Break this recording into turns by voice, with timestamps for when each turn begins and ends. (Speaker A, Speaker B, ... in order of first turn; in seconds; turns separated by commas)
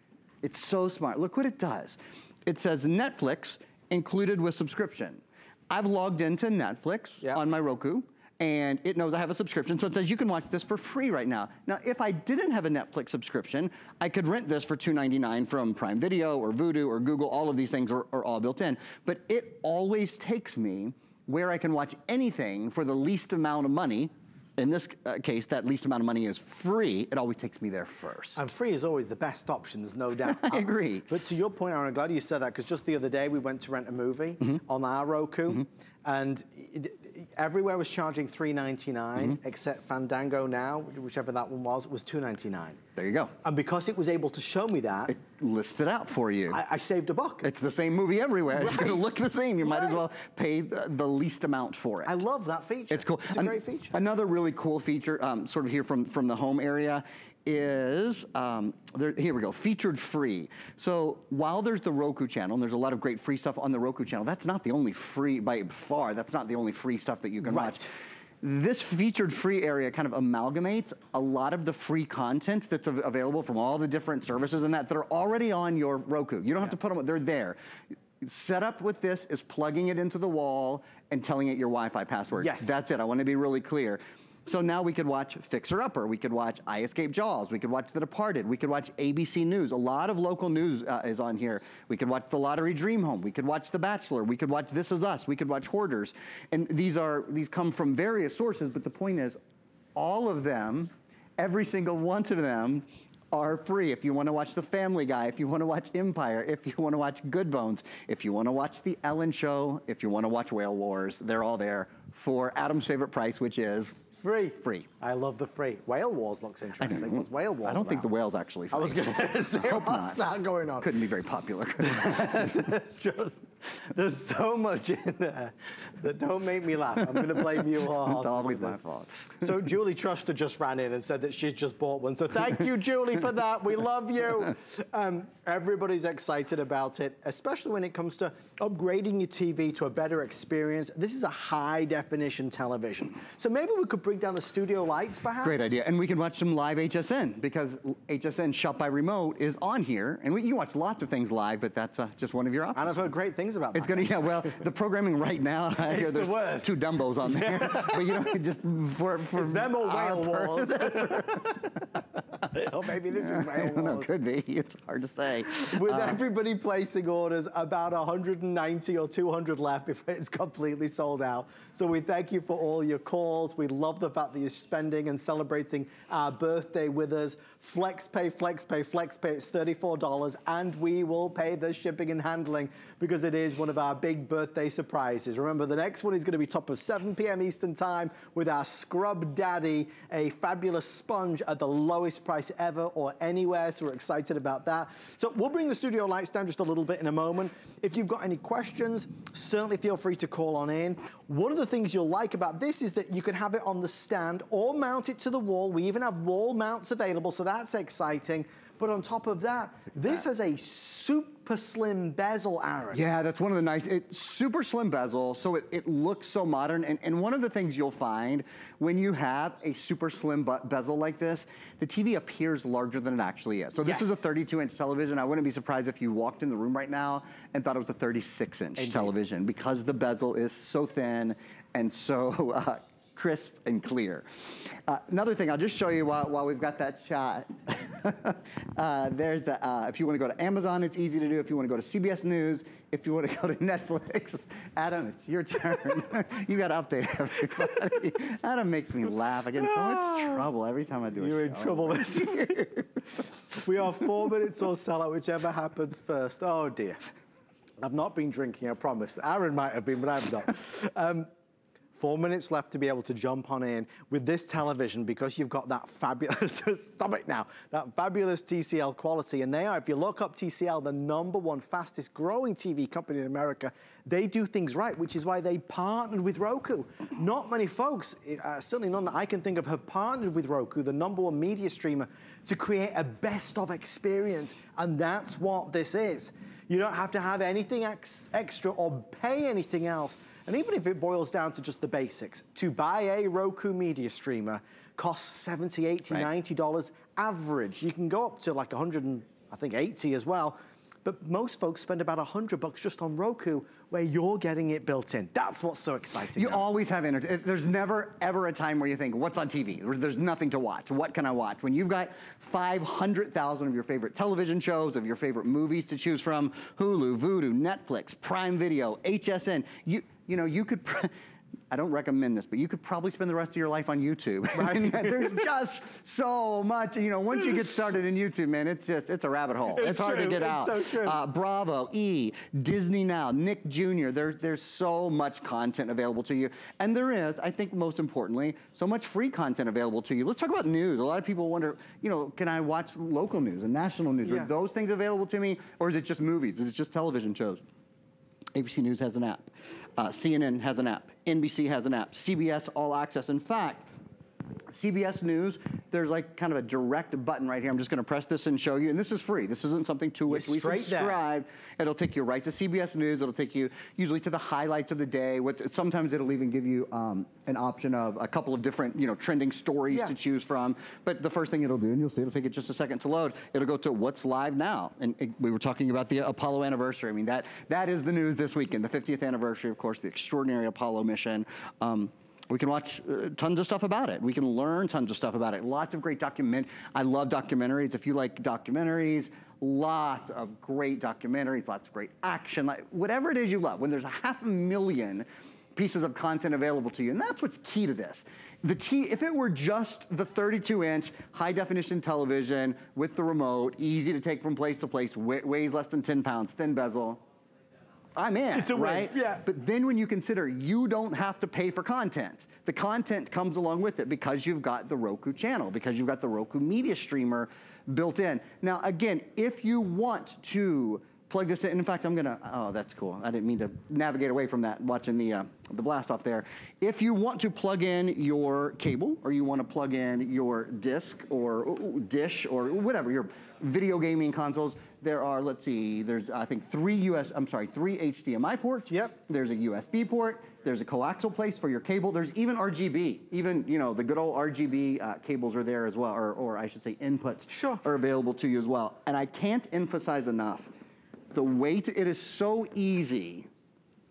Speaker A: 0.4-28.5, Speaker B: 28.4-42.8, Speaker A: 30.2-31.2, Speaker A: 43.0-43.3, Speaker B: 43.4-45.1, Speaker A: 45.1-46.6, Speaker B: 46.5-47.5, Speaker A: 47.4-52.2, Speaker B: 48.5-49.0, Speaker B: 49.6-50.0, Speaker B: 52.0-54.0, Speaker A: 52.9-67.9, Speaker B: 67.4-67.9, Speaker A: 68.4-77.6, Speaker A: 78.2-99.4, Speaker B: 82.3-82.8, Speaker A: 99.9-114.0, Speaker B: 114.2-118.1, Speaker A: 114.6-114.9, Speaker A: 116.8-120.2, Speaker B: 118.7-120.9, Speaker A: 120.8-122.5, Speaker B: 121.8-128.8, Speaker A: 127.1-129.5, Speaker B: 129.4-145.7, Speaker A: 145.4-153.0, Speaker B: 152.7-154.2, Speaker A: 153.7-161.6, Speaker B: 155.8-158.0, Speaker B: 159.3-161.8, Speaker B: 162.4-164.1, Speaker A: 163.2-166.2, Speaker B: 165.6-213.0, Speaker A: 212.9-252.8, Speaker B: 223.8-224.2, Speaker B: 228.8-229.1, Speaker B: 249.9-250.4, Speaker B: 251.2-252.6, Speaker B: 253.6-257.1, Speaker B: 257.8-261.3, Speaker B: 262.0-306.6, Speaker A: 306.4-321.1, Speaker A: 321.7-347.6, Speaker B: 324.6-325.4, Speaker B: 329.7-331.2, Speaker A: 348.5-353.9, Speaker A: 354.7-407.2, Speaker B: 360.3-361.2, Speaker A: 408.1-450.7, Speaker B: 408.5-409.4, Speaker B: 438.9-439.1, Speaker B: 447.5-447.8, Speaker A: 451.3-453.5